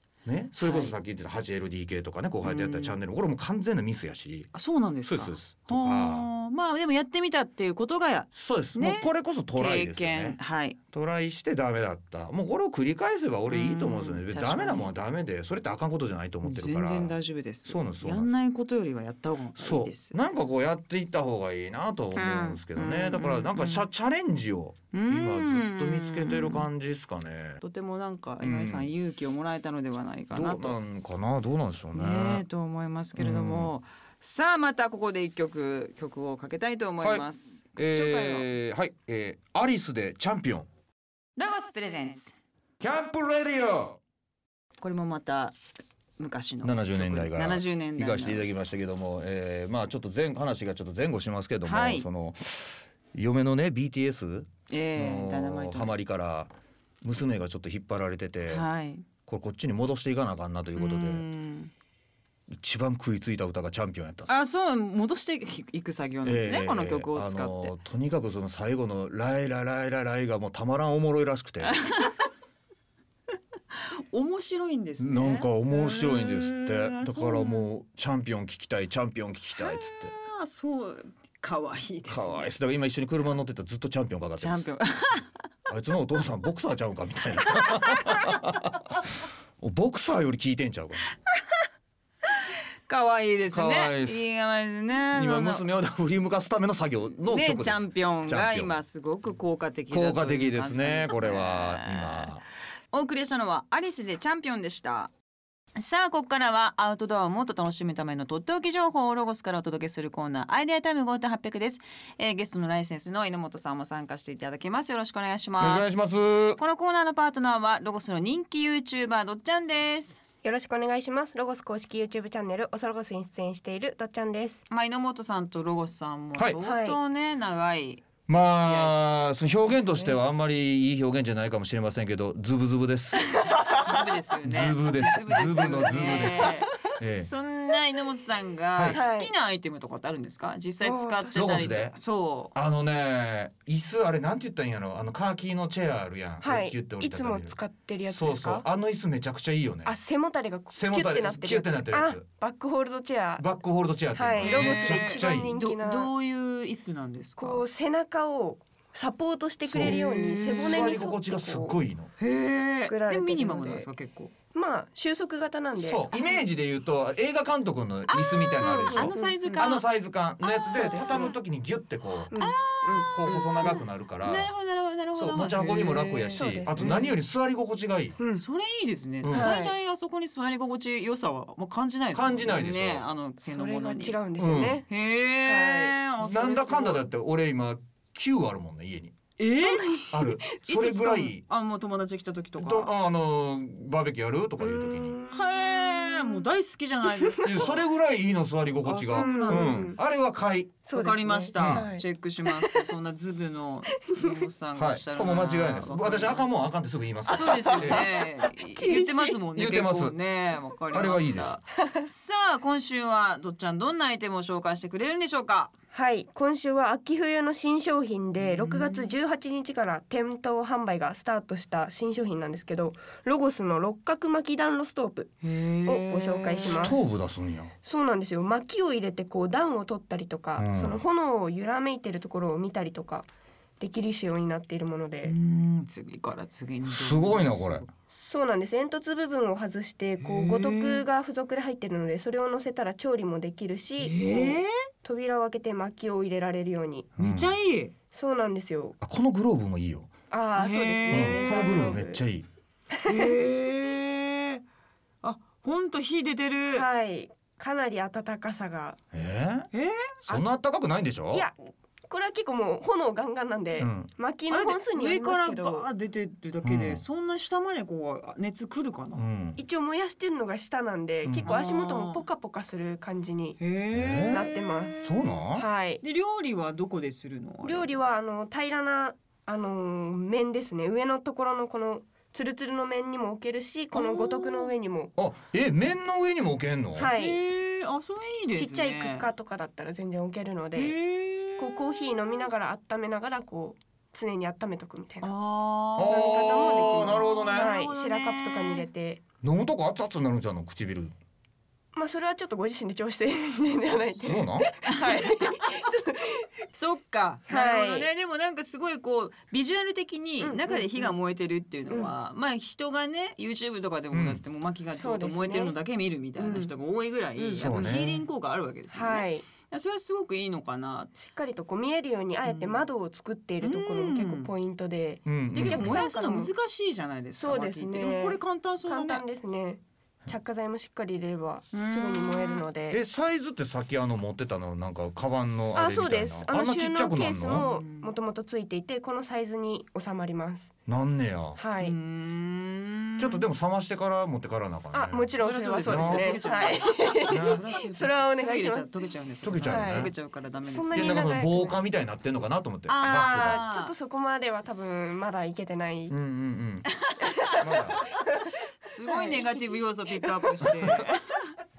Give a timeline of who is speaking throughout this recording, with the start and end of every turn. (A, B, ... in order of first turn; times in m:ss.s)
0:00.2-0:04.5 A
0:00.6-0:01.0 B
0:02.4-0:03.0 B
0:04.5-0:10.8 B
0:05.0-0:06.3 A
0:08.3-0:17.2 A
0:13.5-0:14.9 B
0:16.4-0:20.2 B
0:17.7-0:18.3 A
0:19.6-0:27.6 A
0:22.2-0:23.9 B
0:24.9-0:26.7 B
0:27.6-0:30.8 B
0:28.4-0:28.9 A
0:30.3-0:32.4 A
0:31.9-0:38.5 B
0:33.2-0:33.7 A
0:37.0-0:40.7 A
0:41.4-0:42.4 B
0:42.8-0:44.0 A
0:44.8-0:45.6 B
0:46.2-0:48.5 B
0:46.6-0:58.7 A
0:51.6-0:52.1 B
0:54.7-0:55.9 B
0:58.5-0:59.1 B
0:59.3-1:01.2 A
1:00.8-1:01.7 B
1:02.5-1:04.3 A
1:04.3-1:07.7 B
1:06.2-1:12.0 A
1:11.8-1:12.2 B
1:13.7-1:17.7 B
1:15.0-1:20.1 A
1:19.6-1:22.5 B
1:22.1-1:24.7 A
1:24.4-1:25.4 B
1:25.7-1:31.1 A
1:27.5-1:28.3 B
1:32.3-1:35.6 B
1:33.5-1:34.2 A
1:35.1-1:38.8 A
1:37.3-1:42.3 B
1:39.9-1:42.4 A
1:42.9-1:45.1 B
1:45.8-1:56.0 B
1:55.6-1:56.6 A
1:56.6-2:00.2 B
2:00.4-2:04.6 C
2:04.7-2:09.0 B
2:06.6-2:07.0 C
2:08.3-2:13.8 A
2:13.7-2:22.5 B
2:14.4-2:17.3 A
2:16.0-2:16.5 C
2:18.8-2:19.0 A
2:18.9-2:19.3 C
2:20.8-2:21.7 C
2:21.3-2:22.0 A
2:22.5-2:27.6 A
2:26.4-2:28.6 C
2:28.1-2:30.0 A
2:29.8-2:33.5 C
2:30.7-2:32.2 A
2:33.4-2:35.5 A
2:34.1-2:36.1 C
2:34.4-2:37.6 B
2:37.4-2:41.8 C
2:39.7-2:40.0 A
2:39.8-2:41.0 B
2:40.5-2:42.1 A
2:42.2-2:44.3 B
2:42.8-2:43.9 C
2:44.5-2:46.2 C
2:45.8-2:52.3 A
2:48.1-2:49.8 B
2:48.6-2:49.7 C
2:50.4-2:51.4 B
2:50.6-2:51.4 C
2:52.3-2:53.8 C
2:52.4-2:57.1 B
2:53.1-2:54.5 A
2:55.2-2:58.2 A
2:56.3-2:57.0 C
2:58.2-2:58.4 C
2:58.3-3:04.2 B
2:59.2-2:59.5 A
2:59.3-2:59.8 C
3:02.1-3:03.1 A
3:03.4-3:04.9 C
3:04.4-3:04.8 A
3:04.9-3:07.1 B
3:05.4-3:06.0 C
3:06.2-3:09.2 A
3:09.4-3:12.9 B
3:09.6-3:10.3 C
3:10.1-3:11.4 A
3:12.6-3:15.2 A
3:14.6-3:16.5 C
3:15.3-3:17.8 B
3:17.2-3:17.5 C
3:17.4-3:20.8 A
3:18.8-3:20.0 B
3:19.1-3:20.0 C
3:20.8-3:22.9 C
3:20.9-3:26.5 B
3:21.6-3:21.9 A
3:24.0-3:24.4 C
3:24.8-3:28.1 A
3:27.3-3:35.7 B
3:27.3-3:29.4 C
3:29.6-3:30.2 A
3:30.9-3:31.6 A
3:31.8-3:32.0 C
3:35.9-3:47.0 C
3:38.4-3:39.1 B
3:45.4-3:47.0 B
3:46.6-3:47.7 A
3:47.8-3:53.3 C
3:50.6-3:51.0 A
3:53.8-3:55.4 C
3:55.2-3:57.9 B
3:56.9-3:57.8 A
3:58.1-4:07.1 C
4:00.2-4:01.0 B
4:04.0-4:04.8 B
4:07.2-4:07.6 A
4:07.2-4:07.9 B
4:08.1-4:09.0 C
4:09.0-4:10.1 A
4:10.3-4:12.2 C
4:10.6-4:12.0 B
4:11.1-4:12.5 A
4:12.9-4:13.3 C
4:13.0-4:14.6 B
4:15.2-4:16.9 B
4:16.7-4:19.0 C
4:19.1-4:19.7 A
4:19.7-4:20.1 B
4:20.3-4:21.5 A
4:22.1-4:25.9 C
4:23.8-4:24.1 A
4:24.5-4:29.2 B
4:26.6-4:27.0 A
4:29.2-4:29.6 A
4:29.6-4:33.6 C
4:31.2-4:31.5 A
4:31.4-4:32.2 B
4:33.6-4:35.3 B
4:33.9-4:34.5 A
4:34.3-4:36.0 C
4:35.0-4:35.7 A
4:36.0-4:37.9 B
4:37.6-4:45.1 C
4:43.9-4:44.7 B
4:45.2-4:47.1 A
4:47.0-4:47.4 C
4:47.2-4:49.3 B
4:48.6-4:51.0 C
4:50.8-4:52.4 B
4:51.6-4:55.3 C
4:55.2-4:58.9 B
4:56.0-4:59.2 C
4:56.0-4:57.7 A
4:59.4-5:01.1 A
5:01.9-5:06.5 C
5:04.2-5:04.7 A
5:04.8-5:05.8 B
5:06.7-5:21.1 B
5:07.5-5:08.1 C
5:10.4-5:11.2 C
5:14.1-5:14.4 A
5:14.9-5:15.8 C
5:16.4-5:16.7 C
5:17.4-5:17.9 C
5:17.6-5:18.2 A
5:18.9-5:19.4 C
5:21.2-5:26.5 C
5:22.4-5:22.9 B
5:23.6-5:24.5 B
5:25.3-5:26.0 A
5:25.5-5:29.2 B
5:27.4-5:33.0 C
5:31.7-5:32.6 B
5:32.9-5:37.7 A
5:35.8-5:40.7 C
5:37.6-5:38.1 B
5:40.9-5:41.6 A
5:41.6-5:42.0 C
5:41.8-5:43.4 B
5:43.2-5:46.4 A
5:44.9-5:48.9 C
5:45.4-5:51.4 B
5:47.3-5:47.6 A
5:49.4-5:50.1 A
5:49.6-5:50.1 C
5:50.7-5:51.8 C
5:50.9-5:53.6 A
5:52.9-5:53.9 B
5:53.0-5:56.2 C
5:56.1-5:56.9 A
5:57.0-5:58.2 B
5:57.2-5:58.6 C
5:57.5-5:58.0 A
5:58.8-6:01.5 B
5:59.1-6:00.7 C